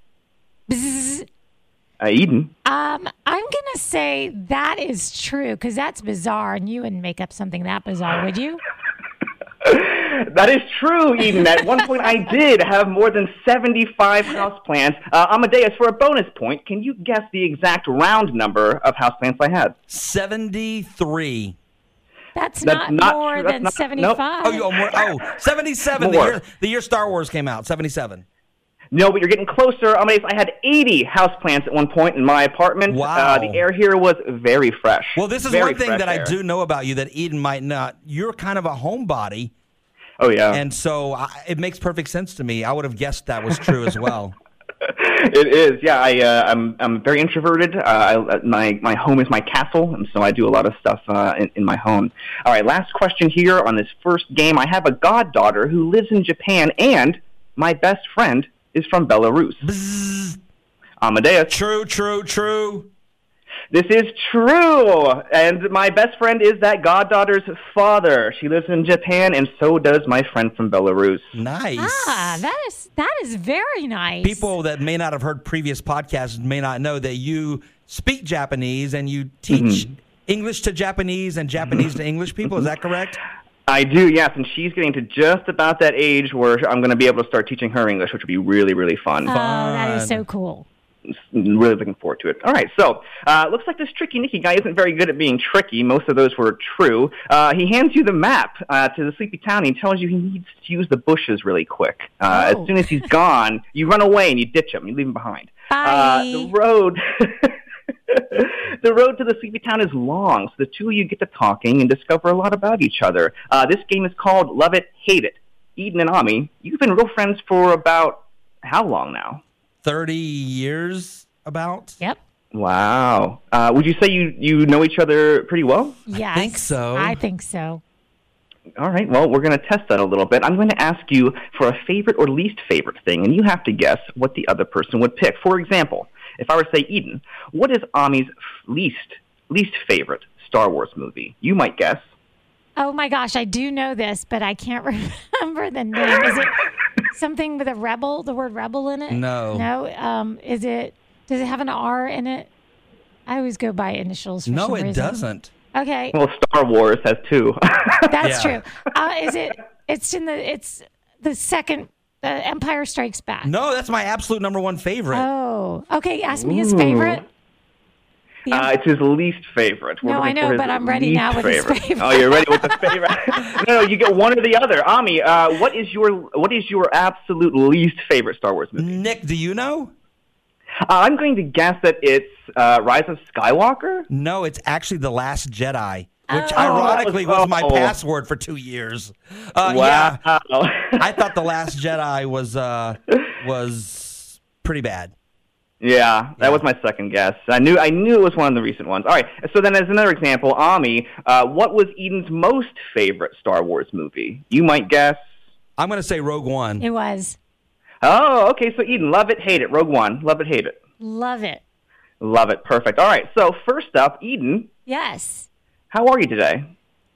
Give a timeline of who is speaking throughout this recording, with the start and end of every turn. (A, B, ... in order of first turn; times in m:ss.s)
0:00.7-0:01.3 A
0:02.0-0:02.5 B
0:02.6-0:08.6 A
0:09.6-0:19.8 B
0:19.9-0:21.6 C
0:22.4-0:24.7 A
0:22.6-0:24.2 B
0:24.4-0:28.2 C
0:26.0-0:26.4 B
0:28.9-0:36.3 B
0:32.9-0:33.6 C
0:35.2-0:39.5 C
0:40.2-0:40.6 B
0:40.5-0:44.4 C
0:44.8-0:59.7 B
0:59.6-1:00.4 C
1:01.0-1:01.6 B
1:01.5-1:02.9 C
1:03.7-1:11.4 B
1:11.4-1:12.4 C
1:11.8-1:14.5 A
1:14.2-1:23.2 C
1:19.5-1:19.9 B
1:21.6-1:22.7 B
1:23.7-1:29.4 B
1:29.3-1:30.7 A
1:29.3-1:30.2 C
1:31.1-1:47.6 B
1:42.3-1:43.1 A
1:45.7-1:46.5 A
1:48.1-1:59.4 B
1:59.8-2:02.0 C
2:02.5-2:06.0 B
2:06.1-2:07.8 A
2:06.2-2:07.2 C
2:08.8-2:22.1 B
2:22.8-2:26.6 A
2:27.1-2:32.5 A
2:29.1-2:29.7 C
2:33.3-2:35.2 A
2:34.5-2:35.5 C
2:35.7-2:36.2 A
2:36.1-2:38.4 B
2:38.1-2:43.5 A
2:38.2-2:38.6 C
2:43.4-2:45.3 C
2:45.1-2:47.2 A
2:46.3-2:47.2 B
2:48.5-2:59.0 B
2:50.0-2:52.9 A
2:58.8-2:59.9 C
3:00.9-3:04.1 B
3:04.1-3:10.2 C
3:06.3-3:07.0 A
3:06.6-3:08.0 B
3:09.6-3:11.3 B
3:11.0-3:15.1 C
3:15.8-3:25.2 B
3:25.8-3:26.8 C
3:26.8-3:27.4 A
3:28.0-3:30.8 B
3:31.0-3:31.6 A
3:32.2-3:34.7 B
3:34.9-3:35.5 A
3:35.9-3:36.7 B